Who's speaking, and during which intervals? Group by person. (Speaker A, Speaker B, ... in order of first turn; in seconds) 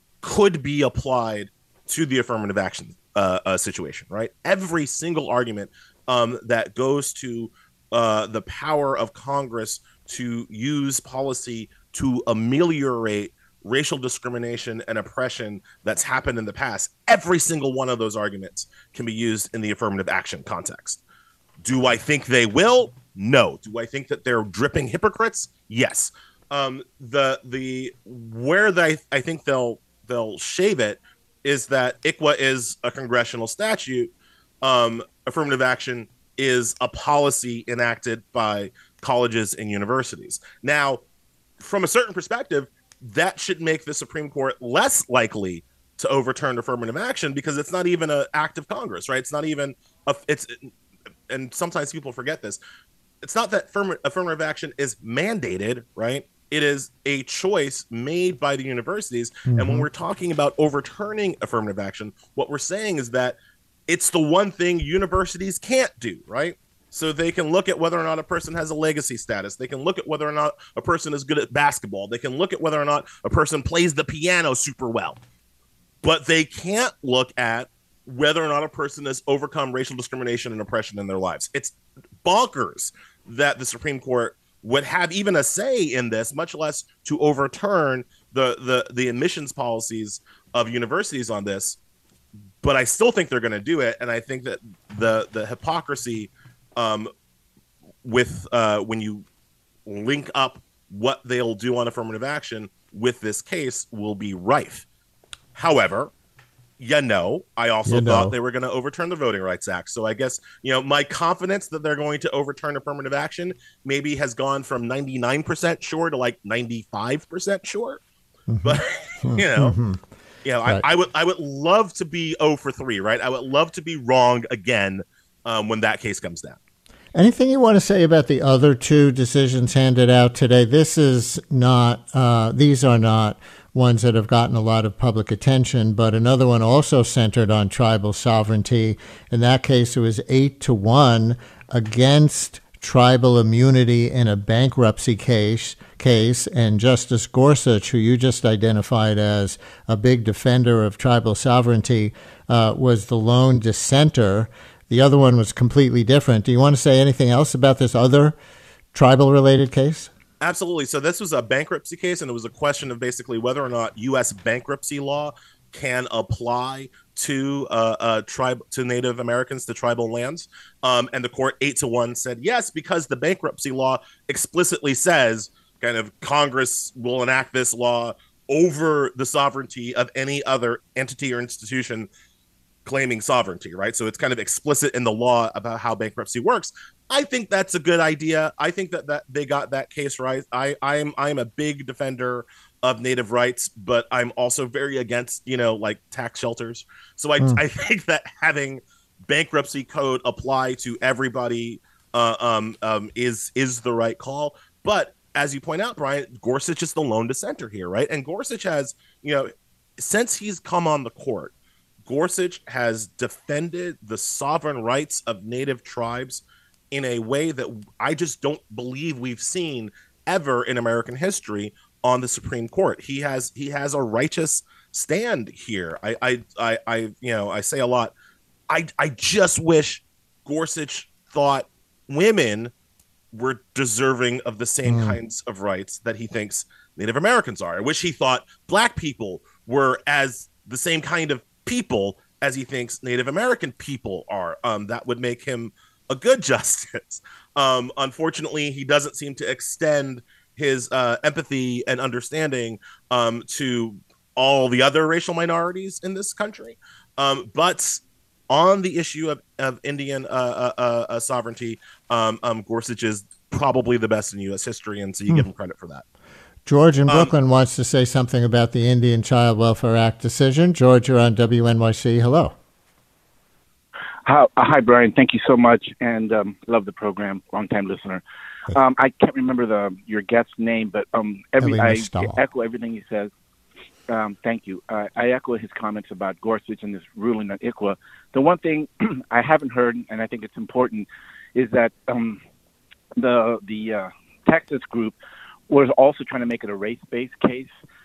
Speaker A: 0.2-21.0, 21.6-34.1, 34.6-41.0, 41.6-50.7, 51.3-52.6, 53.2-63.4, 63.9-75.2, 76.0-91.8, 92.6-97.1, 98.0-99.2, 99.8-104.8, 105.5-106.1, 106.8-118.0, 118.6-119.8, 120.4-126.6, 160.4-182.1, 182.8-211.5, 212.1-228.1, 228.7-232.7, 233.3-266.0
Speaker B: 59.5-59.9, 107.8-108.3, 118.5-120.0, 127.2-158.3, 158.9-160.1, 234.8-235.2, 266.7-272.5, 281.6-282.4
Speaker C: 274.2-283.3, 284.1-292.4, 293.2-295.2, 295.7-297.7